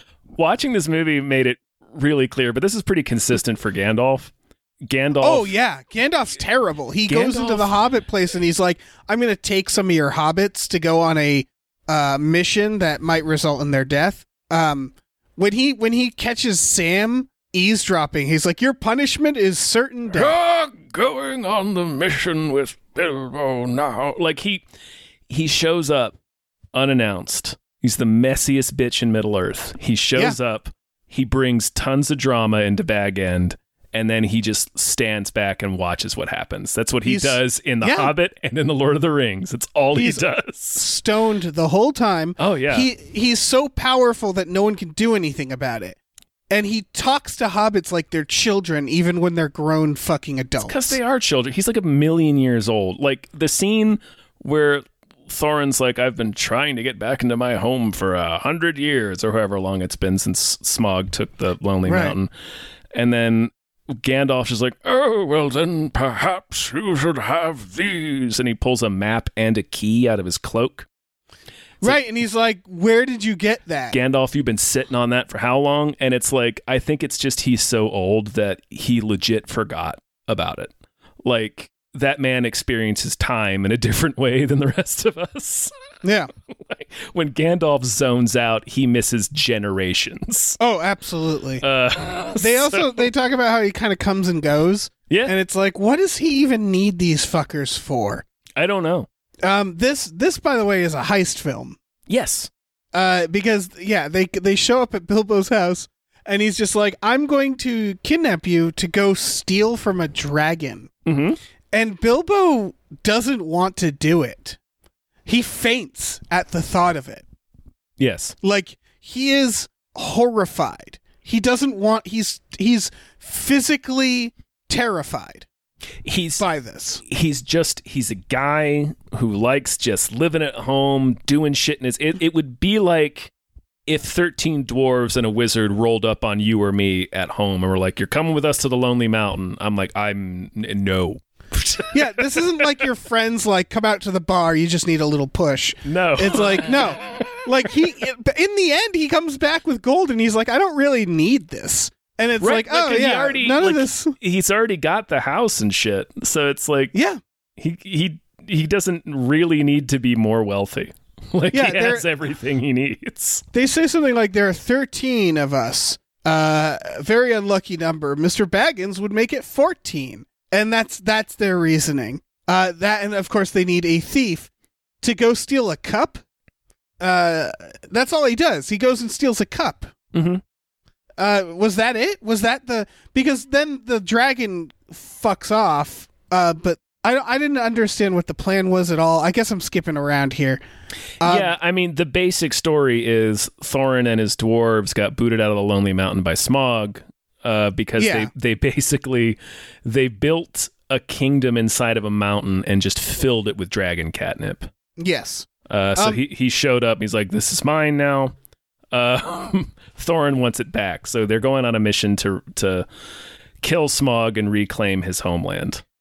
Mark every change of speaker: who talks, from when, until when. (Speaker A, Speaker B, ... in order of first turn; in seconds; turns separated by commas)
Speaker A: 0.4-4.3, Speaker A: 4.9-5.5, Speaker B: 5.2-20.4, Speaker A: 7.1-7.8, Speaker A: 20.1-24.6, Speaker A: 25.3-26.2, Speaker A: 26.7-40.8, Speaker B: 37.0-38.1, Speaker B: 39.9-46.0, Speaker A: 42.4-42.9, Speaker B: 46.5-51.0, Speaker A: 50.6-62.3, Speaker B: 61.9-62.2, Speaker A: 62.9-70.9, Speaker B: 71.8-74.0, Speaker A: 73.9-80.7, Speaker A: 81.2-85.7, Speaker B: 86.0-86.3, Speaker A: 86.4-90.6, Speaker B: 90.6-91.6, Speaker A: 91.6-93.1, Speaker B: 92.4-98.2, Speaker A: 95.1-95.3, Speaker A: 98.6-99.1, Speaker B: 99.4-101.8, Speaker A: 102.1-102.5, Speaker B: 102.9-110.9, Speaker A: 111.1-111.4, Speaker B: 111.7-114.6, Speaker B: 115.3-117.2, Speaker A: 118.0-118.4, Speaker B: 118.4-125.5, Speaker A: 126.0-126.5, Speaker B: 126.4-127.0, Speaker A: 127.0-133.3, Speaker A: 133.9-142.7, Speaker B: 141.9-154.1, Speaker A: 145.8-146.8, Speaker A: 152.4-156.9, Speaker B: 156.9-157.2, Speaker A: 157.6-163.4, Speaker B: 161.5-162.1, Speaker B: 163.5-174.5, Speaker B: 175.0-176.2, Speaker B: 177.0-179.9, Speaker A: 180.1-180.4, Speaker B: 181.2-190.6, Speaker B: 191.2-191.5, Speaker A: 191.2-204.7, Speaker B: 198.0-198.3, Speaker B: 205.0-206.2, Speaker A: 205.7-208.3, Speaker A: 208.9-212.9, Speaker A: 213.6-215.8